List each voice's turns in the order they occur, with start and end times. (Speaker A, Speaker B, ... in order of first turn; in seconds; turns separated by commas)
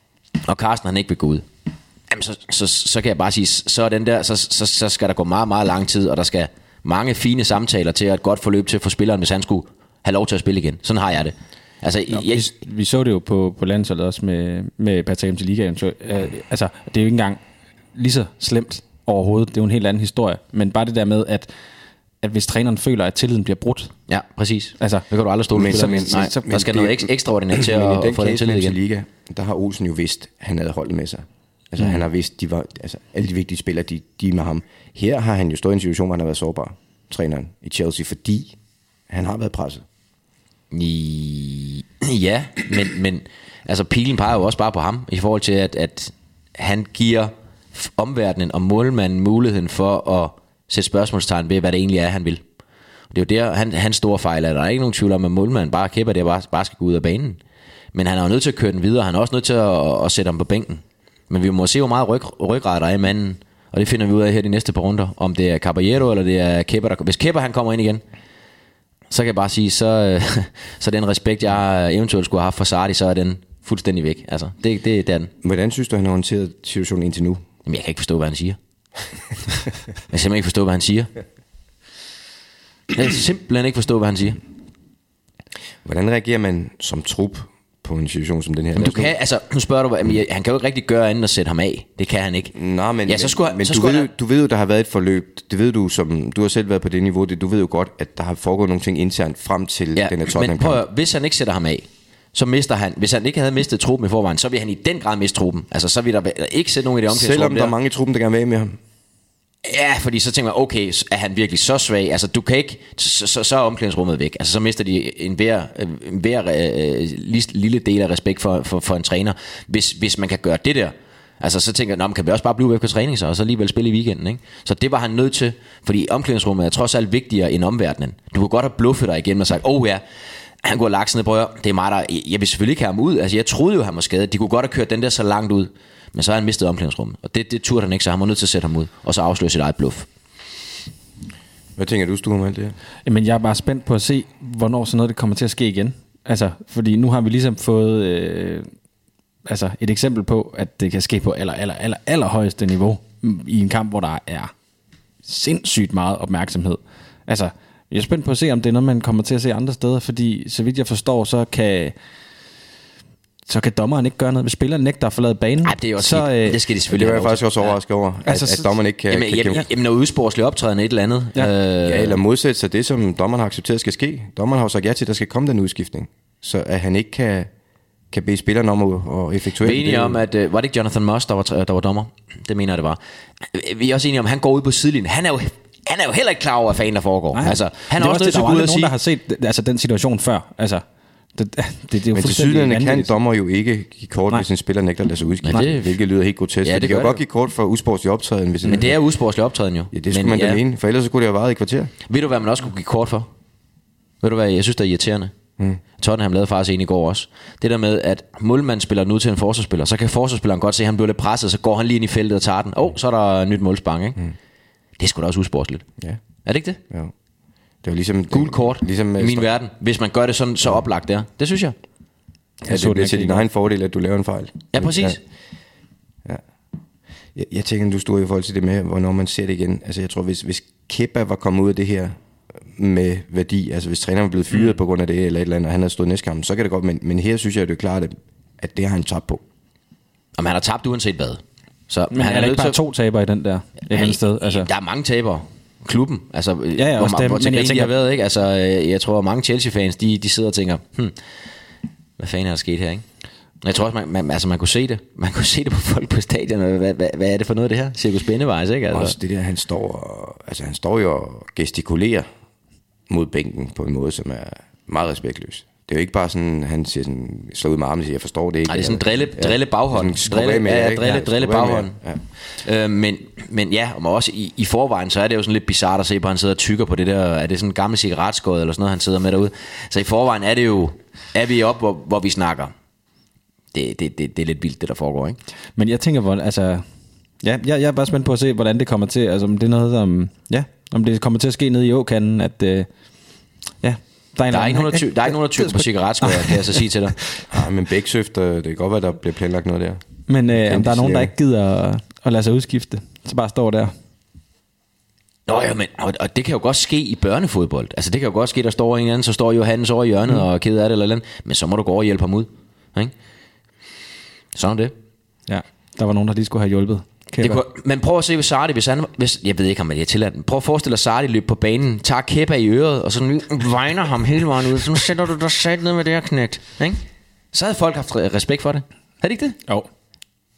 Speaker A: 0.4-1.4, Speaker A: 2.1-12.5, Speaker B: 12.1-17.4, Speaker B: 17.9-21.5, Speaker B: 22.2-23.9, Speaker A: 24.1-28.8, Speaker B: 24.8-25.0, Speaker C: 25.5-38.5, Speaker B: 25.6-26.4, Speaker C: 39.1-39.9, Speaker A: 40.7-52.4, Speaker A: 53.1-57.4, Speaker A: 57.9-68.0, Speaker A: 69.1-75.3, Speaker C: 75.4-77.4, Speaker A: 77.7-78.6, Speaker A: 80.1-81.1, Speaker A: 82.9-84.4, Speaker C: 85.8-89.1, Speaker A: 88.8-92.5, Speaker C: 92.5-100.8, Speaker A: 93.1-94.1, Speaker A: 100.0-107.7, Speaker C: 107.1-108.8, Speaker A: 109.6-130.0, Speaker A: 130.6-140.1, Speaker C: 141.8-142.8, Speaker B: 143.1-148.7, Speaker B: 149.4-154.5, Speaker B: 155.2-161.9, Speaker B: 163.5-166.6, Speaker A: 165.6-167.7, Speaker C: 166.9-169.6, Speaker B: 168.2-168.7, Speaker A: 169.1-172.2, Speaker C: 171.8-177.5, Speaker C: 178.1-180.2, Speaker A: 179.6-188.9, Speaker B: 187.3-190.8, Speaker B: 191.3-193.1, Speaker C: 192.1-199.0, Speaker A: 195.4-196.0, Speaker A: 196.6-197.2, Speaker A: 198.6-200.6, Speaker C: 199.9-201.9, Speaker A: 202.1-203.3, Speaker A: 204.2-205.3, Speaker A: 206.0-214.2, Speaker A: 215.0-215.8, Speaker A: 216.4-216.8, Speaker C: 217.8-219.5, Speaker A: 218.3-221.7, Speaker B: 222.6-223.4, Speaker C: 222.7-225.2, Speaker A: 224.7-225.2, Speaker C: 227.3-232.2, Speaker C: 232.7-239.4, Speaker A: 240.4-242.8, Speaker B: 242.1-244.7, Speaker A: 243.9-251.2, Speaker B: 246.8-247.9, Speaker A: 252.2-253.0, Speaker A: 253.6-259.1, Speaker C: 258.9-262.3, Speaker C: 263.1-272.2, Speaker A: 268.7-271.9, Speaker A: 272.6-282.7, Speaker A: 283.7-285.4, Speaker B: 285.8-286.8, Speaker B: 287.4-292.9, Speaker B: 293.8-296.8, Speaker A: 294.5-297.2, Speaker C: 297.5-300.0, Speaker B: 300.3-303.9, Speaker C: 300.6-301.3, Speaker A: 305.5-313.1, Speaker A: 314.5-314.9, Speaker B: 315.5-317.6, Speaker A: 317.4-327.0, Speaker A: 327.5-329.6